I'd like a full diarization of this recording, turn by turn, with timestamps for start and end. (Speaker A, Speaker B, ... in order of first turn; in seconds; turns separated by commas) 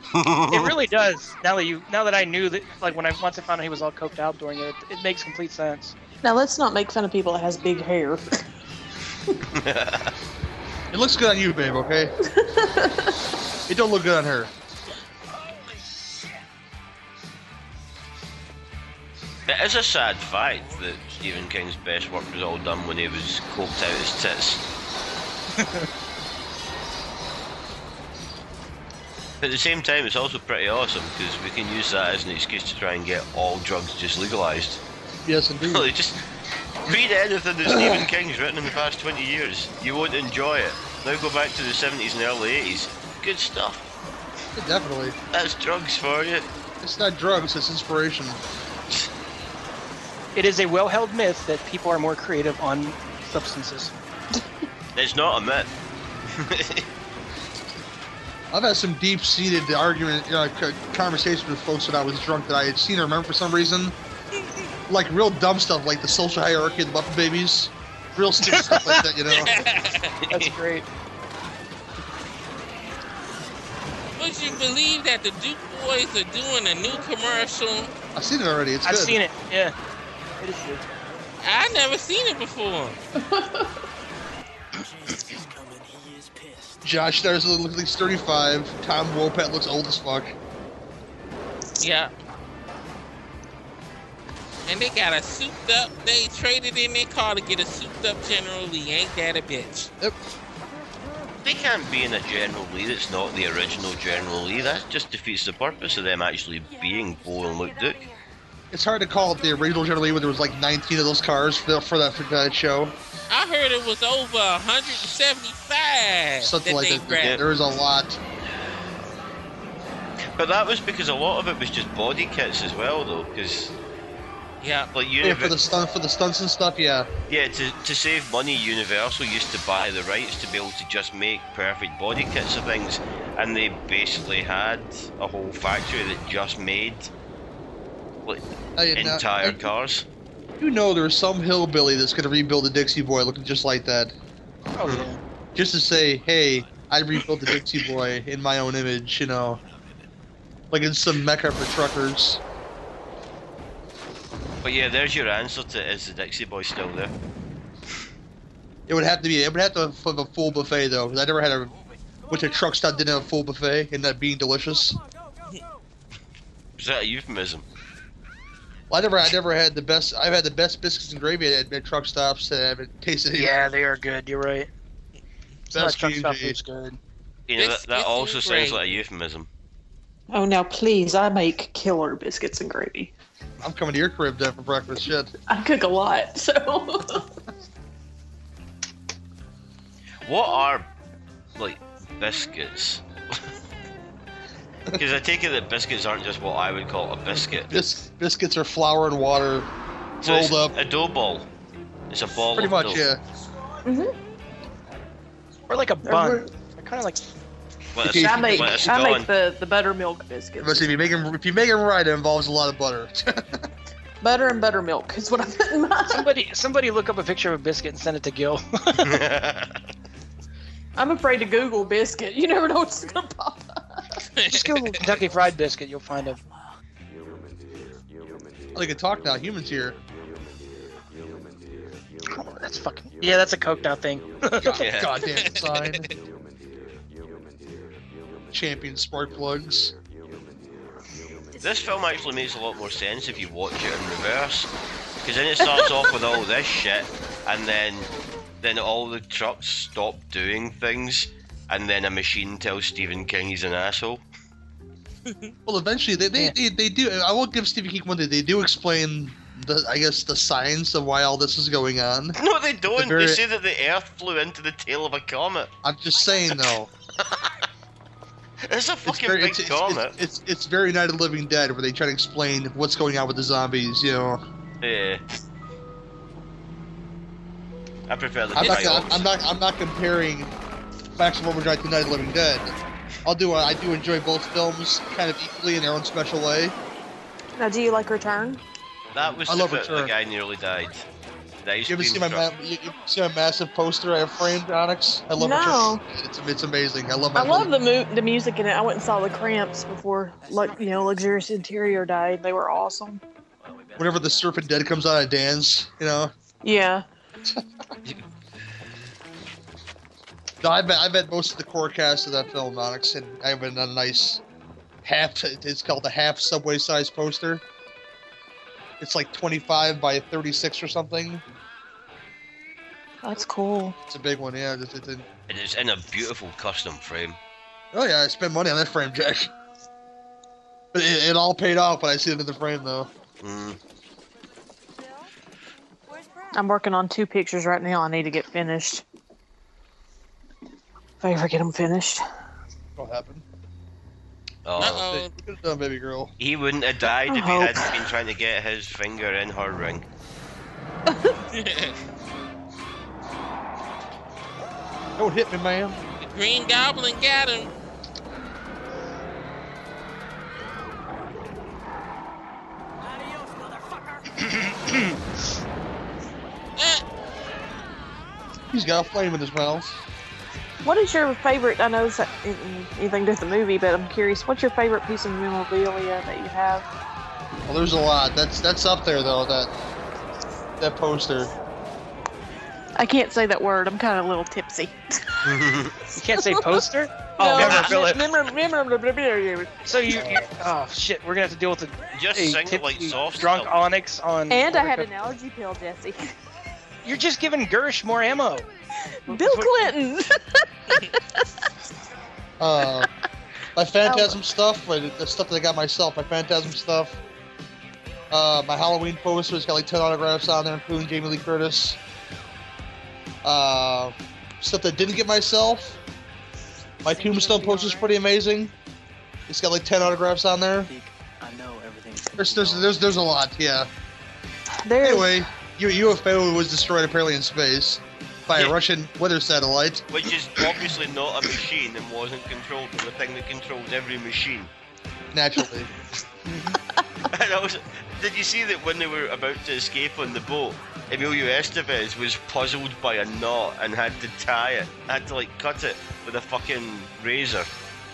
Speaker A: 0.1-0.8, Speaker B: 0.5-5.9, Speaker C: 6.2-8.4, Speaker A: 9.5-10.1, Speaker D: 10.9-12.1, Speaker C: 12.3-13.1, Speaker D: 13.7-14.5, Speaker A: 19.5-24.6, Speaker A: 29.4-34.8, Speaker D: 35.2-35.9, Speaker A: 35.6-36.2, Speaker A: 36.8-43.9, Speaker D: 37.7-38.0, Speaker D: 44.5-45.1, Speaker A: 45.3-46.5, Speaker D: 46.8-48.4, Speaker B: 50.3-53.9, Speaker A: 55.0-55.7, Speaker A: 56.3-56.9, Speaker D: 58.5-64.0, Speaker D: 64.9-69.6, Speaker B: 68.4-69.0, Speaker E: 69.3-70.2, Speaker A: 70.2-70.5, Speaker B: 70.3-70.9, Speaker E: 74.2-77.9, Speaker D: 78.2-79.2, Speaker B: 78.8-79.8, Speaker B: 80.4-80.8, Speaker E: 81.4-83.0, Speaker C: 83.2-83.8, Speaker F: 84.7-86.8, Speaker D: 86.8-90.3, Speaker E: 91.8-92.1, Speaker E: 94.7-99.9, Speaker A: 101.4-108.0, Speaker G: 106.7-108.2, Speaker D: 108.7-112.9, Speaker E: 113.3-117.4, Speaker D: 116.4-118.2, Speaker A: 120.3-123.7, Speaker E: 124.6-124.9, Speaker A: 124.9-125.5, Speaker D: 125.2-127.1, Speaker A: 127.3-137.1, Speaker D: 138.8-139.6, Speaker A: 138.9-140.1, Speaker D: 140.6-144.1, Speaker B: 144.7-145.2, Speaker D: 145.5-149.6, Speaker D: 150.7-152.4, Speaker A: 154.6-157.1, Speaker D: 158.9-161.8, Speaker D: 162.3-165.0, Speaker A: 166.8-167.7, Speaker D: 168.9-173.5, Speaker B: 173.3-174.7, Speaker D: 175.7-176.6, Speaker B: 175.7-177.0, Speaker A: 177.5-179.5, Speaker E: 177.6-179.0, Speaker C: 180.3-183.1, Speaker D: 183.6-185.3, Speaker C: 185.5-187.3, Speaker A: 190.2-190.9, Speaker A: 191.5-193.4, Speaker A: 195.0-197.8, Speaker D: 197.4-199.7, Speaker A: 200.2-201.5, Speaker D: 200.2-200.7, Speaker A: 202.1-203.0, Speaker D: 202.5-203.2, Speaker C: 203.8-204.2, Speaker B: 205.7-207.2, Speaker C: 206.0-206.5, Speaker A: 207.9-209.3, Speaker D: 208.0-208.7, Speaker C: 208.0-210.9, Speaker D: 210.6-213.7, Speaker C: 214.2-216.3, Speaker B: 216.1-219.2, Speaker A: 219.0-219.8, Speaker C: 220.9-224.2, Speaker F: 221.2-223.3, Speaker E: 224.3-225.1, Speaker B: 224.5-226.4, Speaker F: 225.1-225.6, Speaker F: 226.1-226.8, Speaker D: 228.7-230.0, Speaker B: 232.3-235.0, Speaker D: 234.6-236.1, Speaker A: 234.6-235.3, Speaker E: 235.3-236.1, Speaker D: 238.5-239.9, Speaker F: 241.1-242.5, Speaker A: 241.6-244.7, Speaker A: 245.2-248.1, Speaker A: 248.6-254.2, Speaker E: 255.3-255.5, Speaker D: 255.7-262.4, Speaker A: 262.4-265.7, Speaker D: 262.9-263.4, Speaker D: 265.8-266.9, Speaker A: 267.2-267.4, Speaker A: 268.6-270.2, Speaker D: 269.0-274.4, Speaker A: 274.8-275.2, Speaker A: 278.1-279.3, Speaker D: 278.5-280.5, Speaker D: 281.2-286.8, Speaker C: 287.6-288.6, Speaker A: 289.1-291.1, Speaker D: 289.5-290.1, Speaker A: 291.6-292.5, Speaker D: 291.9-297.7, Speaker C: 295.4-296.0, Speaker C: 297.3-303.2, Speaker F: 300.4-302.0, Speaker F: 303.6-304.9, Speaker D: 304.0-306.3, Speaker C: 306.6-307.1, Speaker D: 310.6-314.4, Speaker D: 315.0-317.6, Speaker D: 319.0-321.4, Speaker C: 323.2-324.0, Speaker D: 324.1-325.2, Speaker A: 325.5-327.4, Speaker D: 327.9-329.5, Speaker D: 330.9-333.1, Speaker A: 333.4-333.8, Speaker G: 335.0-335.3, Speaker G: 336.1-336.6, Speaker C: 336.5-339.0, Speaker C: 341.2-342.2, Speaker D: 342.9-343.4, Speaker A: 344.6-345.0, Speaker E: 344.8-345.3, Speaker D: 344.8-346.3, Speaker A: 346.4-350.1, Speaker C: 347.3-348.0, Speaker C: 351.1-351.4, Speaker E: 351.5-352.0, Speaker D: 355.2-356.0, Speaker E: 356.1-357.7, Speaker F: 363.1-364.3, Speaker B: 364.4-365.2, Speaker E: 366.8-367.0, Speaker D: 368.7-370.0, Speaker C: 370.8-376.9, Speaker D: 377.7-379.7, Speaker D: 380.8-381.5, Speaker C: 382.9-385.6, Speaker A: 385.4-386.0, Speaker C: 386.1-386.9, Speaker B: 386.2-388.3, Speaker C: 387.4-390.2, Speaker D: 387.5-387.9, Speaker B: 389.8-395.1, Speaker D: 390.1-390.5, Speaker A: 392.1-393.7, Speaker C: 394.5-396.3, Speaker B: 397.0-398.7, Speaker C: 399.1-400.7, Speaker B: 399.3-399.9, Speaker D: 402.6-403.1, Speaker D: 403.8-407.2, Speaker C: 404.0-404.4, Speaker D: 408.3-412.0, Speaker D: 413.4-416.0, Speaker D: 417.0-418.7, Speaker C: 417.0-418.1, Speaker D: 419.5-420.9, Speaker F: 420.8-423.1, Speaker D: 422.4-423.9, Speaker C: 424.8-425.5, Speaker D: 425.0-430.1, Speaker A: 430.1-434.7, Speaker D: 435.3-435.9, Speaker B: 436.4-436.8, Speaker A: 437.3-447.7